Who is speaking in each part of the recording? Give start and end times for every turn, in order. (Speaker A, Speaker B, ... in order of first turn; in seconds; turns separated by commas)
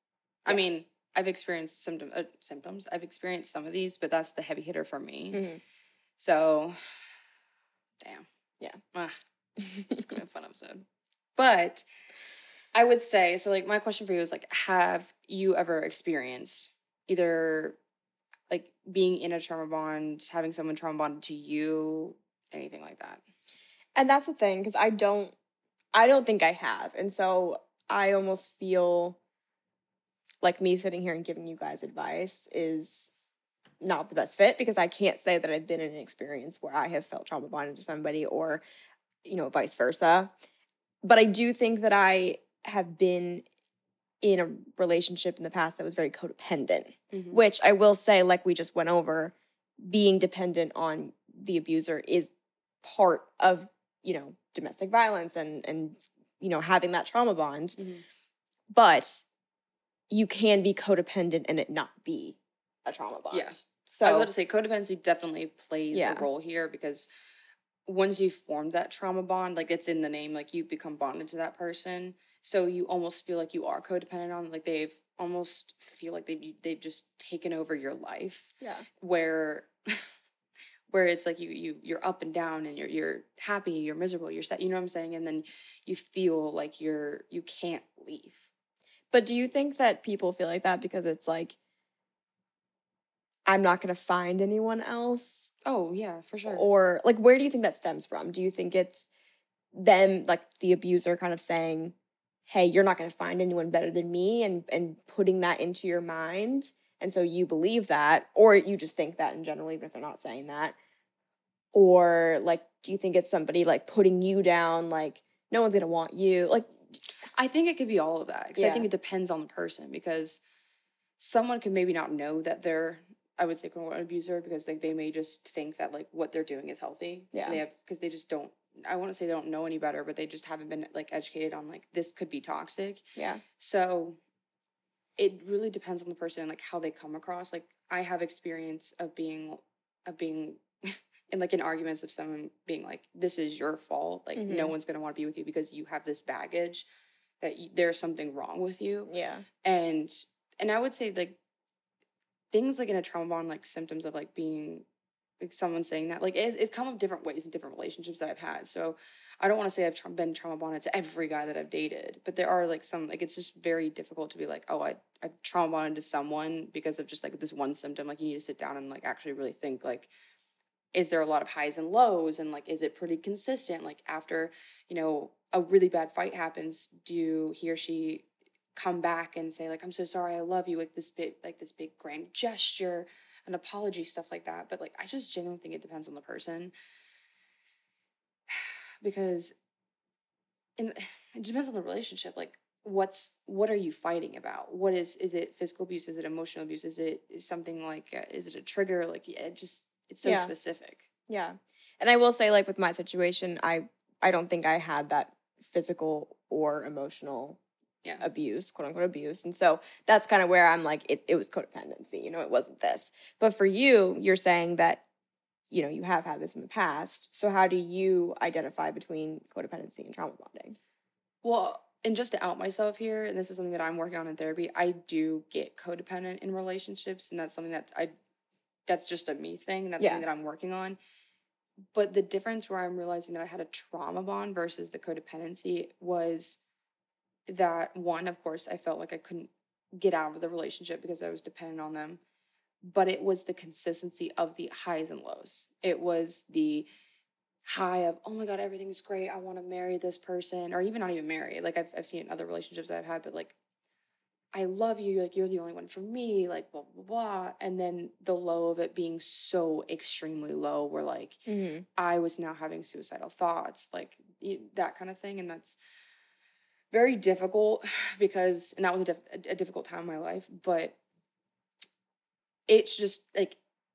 Speaker A: 0.4-5.4, Speaker B: 5.3-5.6, Speaker A: 6.2-6.8, Speaker A: 8.0-8.2, Speaker A: 8.9-9.2, Speaker B: 9.6-10.1, Speaker A: 9.9-10.8, Speaker A: 11.3-11.8, Speaker A: 12.7-17.8, Speaker A: 18.5-23.2, Speaker B: 23.9-25.3, Speaker B: 25.9-29.2, Speaker B: 30.4-33.1, Speaker B: 33.8-38.6, Speaker B: 39.2-40.3, Speaker B: 41.0-43.4, Speaker B: 44.2-52.3, Speaker A: 47.1-47.4, Speaker B: 52.8-57.8, Speaker A: 57.8-58.0, Speaker B: 58.7-59.2, Speaker B: 60.1-64.3, Speaker A: 63.3-67.1, Speaker B: 65.9-66.2, Speaker A: 67.8-80.1, Speaker B: 78.6-78.9, Speaker A: 80.9-88.5, Speaker B: 89.1-91.5, Speaker B: 93.5-95.5, Speaker A: 95.6-96.6, Speaker B: 96.5-99.1, Speaker B: 99.7-101.9, Speaker B: 102.5-110.7, Speaker B: 111.7-117.0, Speaker A: 117.3-120.4, Speaker B: 118.6-118.9, Speaker A: 121.2-133.0, Speaker B: 127.3-127.6, Speaker B: 133.2-133.4, Speaker A: 133.6-134.2, Speaker A: 135.2-146.9, Speaker B: 144.3-144.7, Speaker A: 147.4-149.1, Speaker B: 149.1-149.4, Speaker A: 149.6-151.4, Speaker A: 152.5-154.8, Speaker A: 155.4-170.1, Speaker A: 170.9-186.7, Speaker A: 188.5-189.6, Speaker A: 190.8-201.1, Speaker B: 200.2-200.5, Speaker B: 201.3-207.6, Speaker B: 208.2-215.0, Speaker B: 215.7-220.8, Speaker A: 221.4-228.1, Speaker A: 228.9-231.0, Speaker B: 230.0-230.2, Speaker A: 231.9-236.6, Speaker A: 237.5-242.2, Speaker A: 242.8-246.9, Speaker A: 247.7-253.5, Speaker A: 254.5-261.4, Speaker B: 261.5-261.9, Speaker A: 261.9-265.8, Speaker A: 266.9-271.0, Speaker A: 272.7-273.6